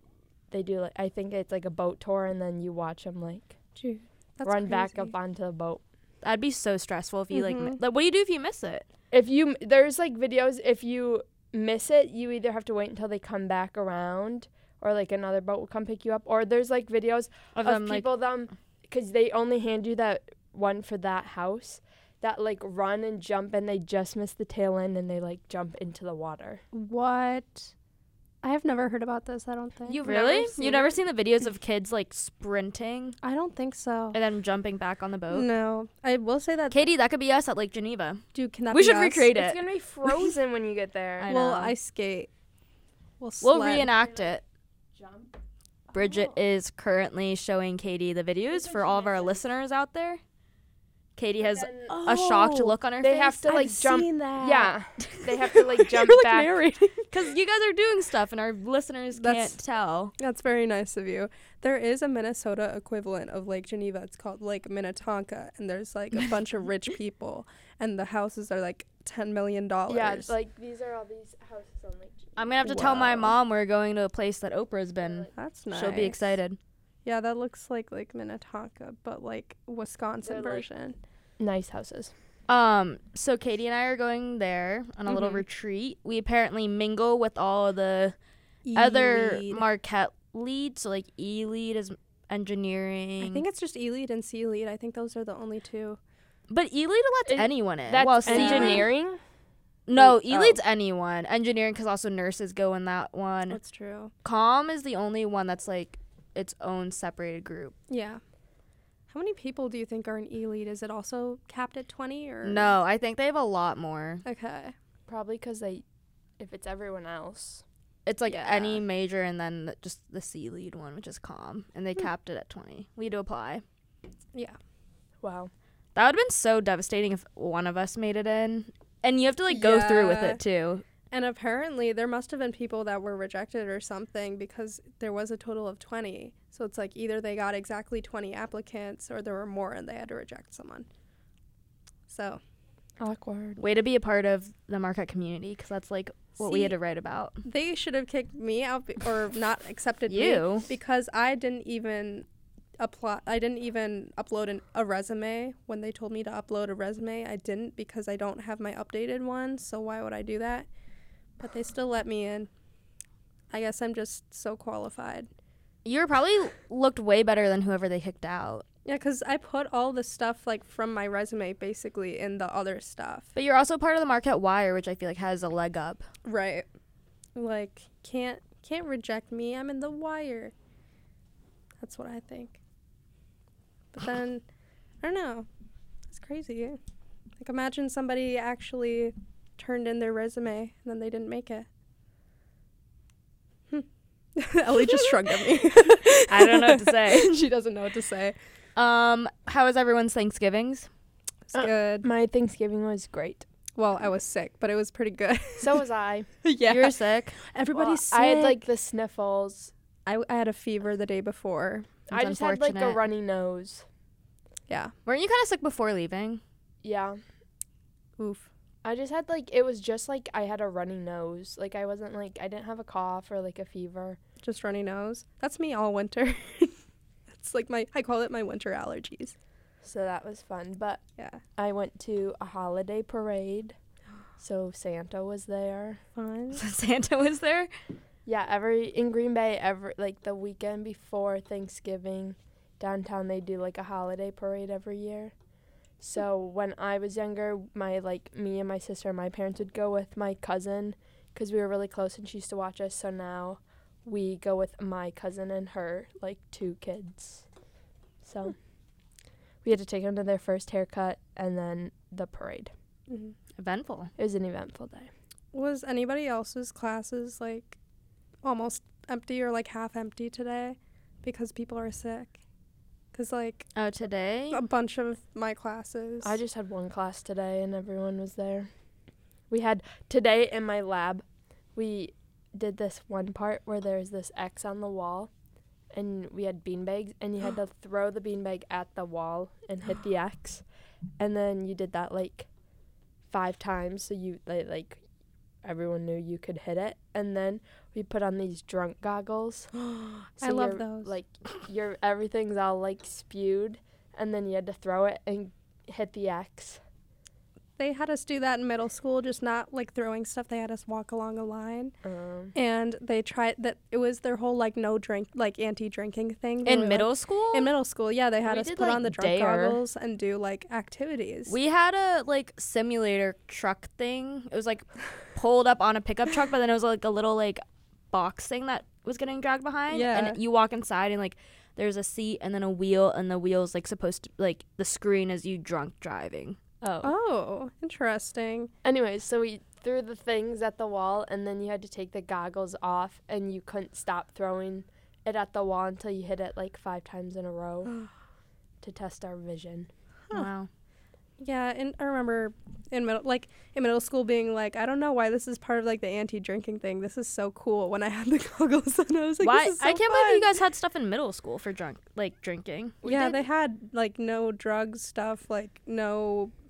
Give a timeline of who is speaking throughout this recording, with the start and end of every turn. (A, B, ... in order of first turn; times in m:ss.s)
0:00.5-0:03.5 A
0:03.8-0:05.1 B
0:04.4-0:05.8 A
0:06.2-0:08.8 C
0:07.3-0:07.8 B
0:09.1-0:26.6 A
0:17.5-0:18.1 C
0:26.7-0:27.7 B
0:28.4-0:30.9 B
0:29.9-0:33.2 C
0:30.0-0:30.5 A
0:33.2-0:34.2 B
0:34.1-0:35.5 C
0:35.3-0:36.9 B
0:36.7-0:39.6 C
0:38.3-0:39.3 B
0:39.3-0:41.3 A
0:41.2-0:41.7 C
0:41.3-0:42.3 B
0:43.2-0:43.9 B
0:43.4-0:44.4 C
0:44.0-0:44.3 A
0:44.9-0:45.4 A
0:45.9-0:50.2 C
0:48.5-0:49.4 A
0:51.2-0:53.5 C
0:51.4-0:52.0 A
0:51.9-0:52.8 B
0:53.0-0:56.5 A
0:53.4-0:57.1 B
0:57.1-1:00.1 C
0:59.1-0:59.5 B
1:00.2-1:10.3 B
1:09.9-1:13.3 A
1:12.4-1:16.6 C
1:15.0-1:15.3 A
1:15.3-1:16.2 B
1:17.0-1:21.0 B
1:20.2-1:20.6 A
1:21.4-1:22.1 A
1:22.5-1:28.1 C
1:25.1-1:25.4 B
1:28.6-1:29.6 B
1:28.7-1:33.4 C
1:33.2-1:36.0 B
1:36.5-1:38.8 C
1:37.3-1:39.2 A
1:38.3-1:38.9 B
1:39.9-1:43.6 C
1:40.0-1:40.5 A
1:43.5-1:44.1 B
1:44.2-1:47.7 C
1:47.9-1:48.2 B
1:49.1-1:52.8 B
1:52.4-1:54.2 C
1:54.2-1:54.7 B
1:55.1-1:55.8 A
1:56.4-1:57.6 A
1:58.0-2:03.6 C
1:58.3-1:58.8 B
2:05.2-2:05.5 A
2:05.9-2:10.8 C
2:09.5-2:10.4 B
2:11.1-2:20.8 B
2:22.1-2:22.4 B
2:23.0-2:23.6 A
2:23.6-2:27.4 C
2:26.4-2:26.7 B
2:27.4-2:32.2 B
2:30.1-2:30.7 C
2:32.8-2:40.7 B
2:41.4-2:42.5 B
2:43.5-2:45.3 B
2:45.8-2:48.6 C
2:48.8-2:53.3 B
2:53.3-2:56.0 C
2:56.2-2:56.6 B
2:57.4-3:00.5 B
3:01.8-3:02.6 B
3:03.9-3:04.4 B
3:05.0-3:05.5 B
3:06.1-3:06.8 B
3:07.4-3:11.6 B
3:13.7-3:18.4 B
3:16.1-3:17.3 C
3:18.8-3:20.9 C
3:21.5-3:22.0 B
3:21.5-3:23.4 A
3:23.8-3:25.8 B
3:25.6-3:26.3 A
3:26.4-3:28.6 B
3:26.6-3:27.4 C
3:27.7-3:29.7 A
3:30.0-3:31.9 B
3:32.1-3:33.8 A
3:32.1-3:33.0 C
3:34.7-3:34.9 B
3:35.0-3:36.4 C
3:36.8-3:37.2 A
3:38.2-3:38.5 B
3:38.8-3:44.2 A
3:44.4-3:46.7 B
3:47.3-3:49.3 B
3:49.8-3:51.0 A
3:51.6-3:53.8 A
3:54.4-3:56.0 A
3:56.2-3:56.6 B
3:56.5-3:57.7 C
3:58.2-4:05.3 A
4:06.0-4:17.4 A
4:18.2-4:18.6 A
4:19.6-4:22.7 A
4:23.1-4:23.3 B
4:23.6-4:24.1 C
4:24.2-4:25.1 A
4:25.5-4:27.8 B
4:28.4-4:32.4 B
4:33.1-4:33.7 B
4:33.7-4:34.6 C
4:34.5-4:36.4 B
4:36.2-4:38.7 A
4:39.5-4:41.2 A
4:41.7-4:45.3 A
4:45.9-4:50.6 A
4:51.2-4:52.5 A
4:53.3-4:55.0 A
4:55.6-4:59.7 A
4:59.8-5:01.2 B
5:00.4-5:06.8 A
5:07.8-5:11.9 B
5:12.0-5:12.5 A
5:12.5-5:21.5 B
5:16.6-5:17.7 C
5:18.4-5:19.8 A
5:21.5-5:36.6 C
5:29.9-5:30.4 B
5:36.8-5:37.1 A
5:37.0-5:38.7 B
5:38.8-5:48.0 A
5:48.8-5:49.9 A
5:50.3-5:50.7 C
5:51.4-6:00.6 B
5:59.4-6:03.0 C
6:03.0-6:03.4 A
6:03.0-6:06.5 B